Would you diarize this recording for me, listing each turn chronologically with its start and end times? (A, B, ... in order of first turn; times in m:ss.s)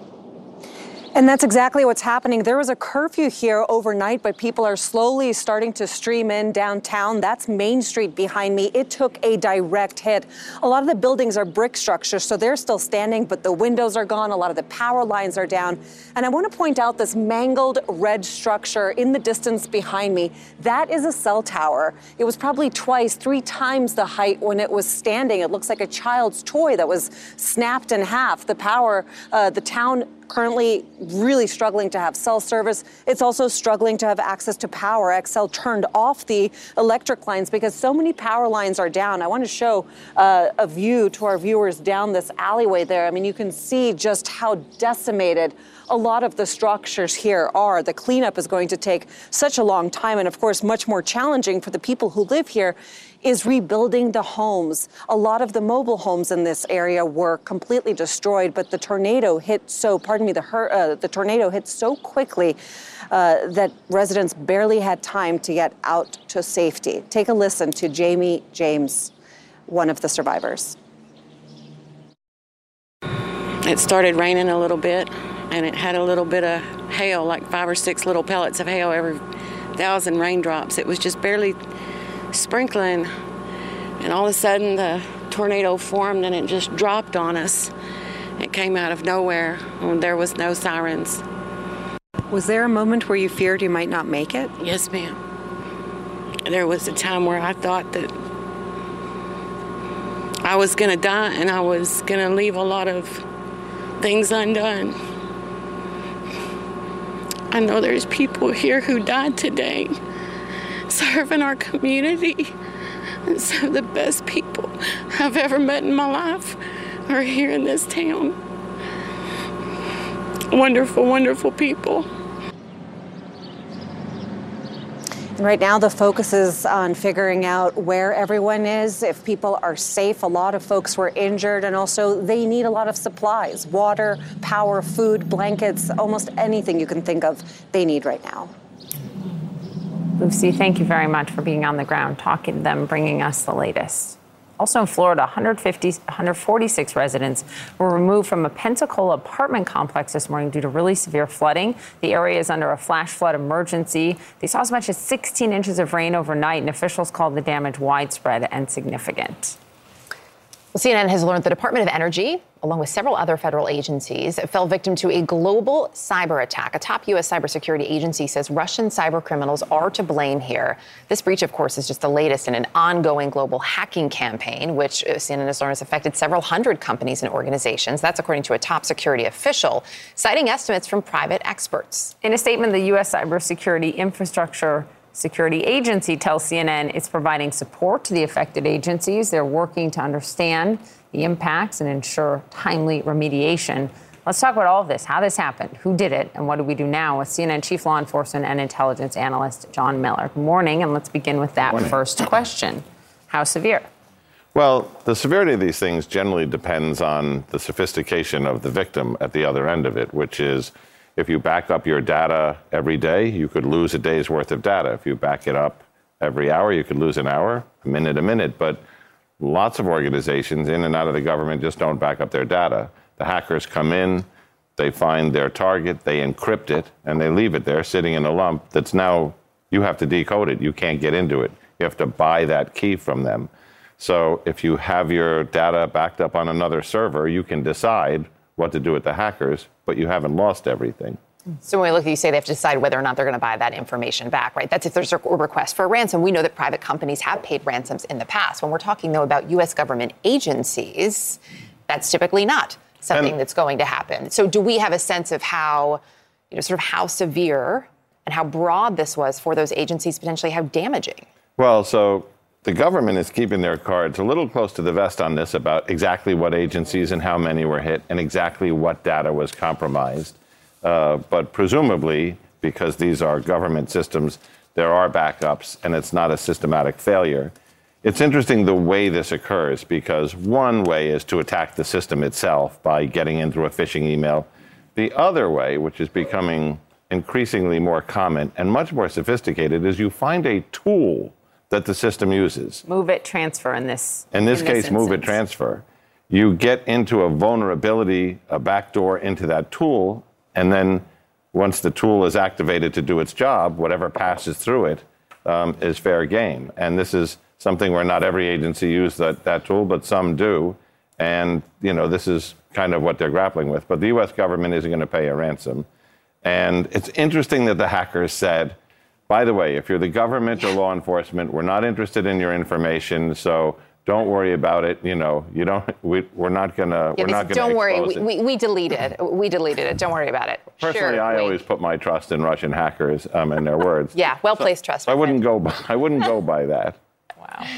0:01.2-1:02.6 A
1:03.1-1:09.1 A
1:09.7-1:10.7 A
1:13.7-1:19.2 B
1:19.8-1:21.6 B
1:22.3-1:23.1 B
1:24.0-1:27.7 B
1:28.4-1:31.2 B
1:34.6-1:35.2 B
1:36.5-1:38.1 B
1:40.4-1:43.2 B
1:44.0-1:44.9 B
1:47.5-1:49.9 B
1:50.9-1:52.4 B
1:53.3-1:54.7 B
1:55.2-1:56.6 B
1:57.1-1:58.3 B
2:00.5-2:02.0 B
2:05.4-2:18.5 A
2:20.2-2:39.6 C
2:40.7-3:02.1 D
3:02.2-3:23.9 C
3:21.7-3:22.0 E
3:24.6-3:38.8 E
3:39.4-4:01.2 E
4:01.6-4:21.3 D
4:21.6-4:37.5 E
4:38.0-4:52.8 E
4:52.9-4:55.4 C
4:54.3-5:15.9 E
5:16.4-5:18.8 E
5:19.3-5:28.3 E
5:27.2-5:31.6 D
5:30.8-5:37.0 E
5:34.1-5:35.4 D